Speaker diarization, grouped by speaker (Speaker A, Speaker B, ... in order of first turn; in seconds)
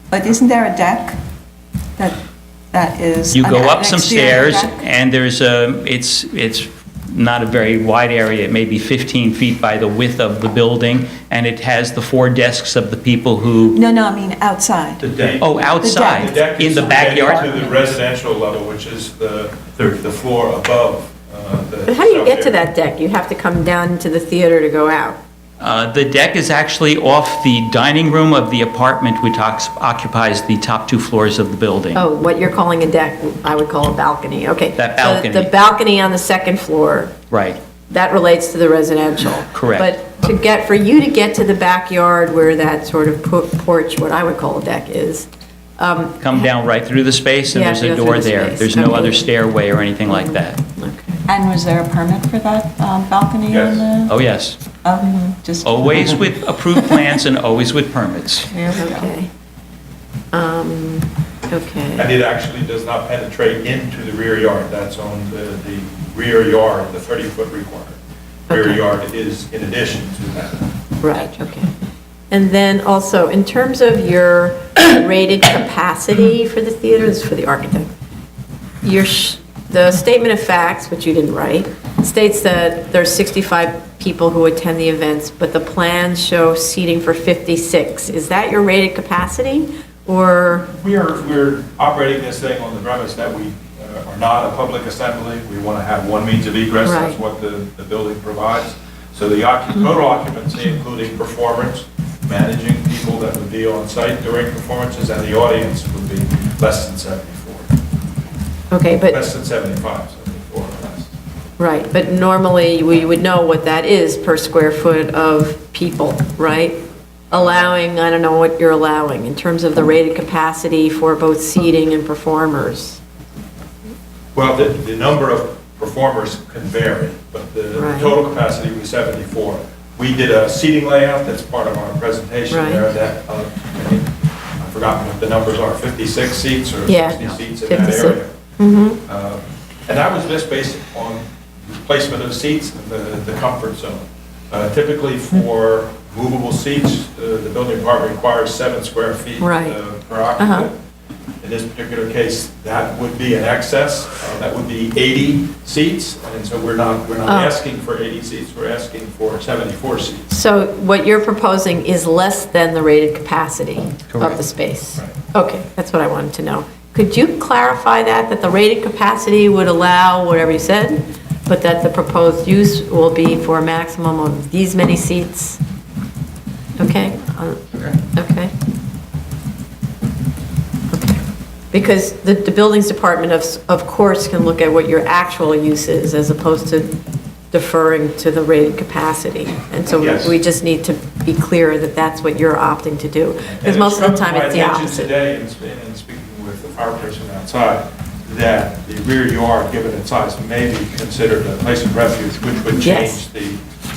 Speaker A: 0.1-1.1, 2.7-4.9, 13.7-17.6, 51.3-54.2, 54.8-56.3, 58.5-59.1
Speaker B: 3.3-13.8, 15.4-17.8, 25.6-32.0, 34.8-35.5, 37.3-37.6, 39.5-39.9, 46.2-50.6, 54.0-54.6, 55.6-58.5, 164.1-164.4
Speaker C: 15.0-22.6, 53.5-53.9, 62.0-68.0, 68.5-70.7, 90.7-107.7, 109.1-111.1, 124.3-138.3, 139.0-150.8, 151.4-160.3, 189.9-190.3, 193.4-203.6
Speaker D: 21.9-25.2, 31.9-37.1, 37.9-45.3, 45.8-46.4, 47.5-49.3, 50.1-51.2, 58.8-59.3, 60.3-62.1, 68.5-68.8, 71.0-71.7, 72.3-77.9, 78.8-90.7, 96.8-97.2, 108.7-109.2, 111.6-116.8, 117.3-123.0, 127.7-128.2, 132.5-132.8, 136.9-139.0, 149.4-149.8, 150.4-150.7, 157.2-157.5, 160.3-175.6, 176.8-178.5, 180.9-186.9, 187.5-195.1, 202.8-203.2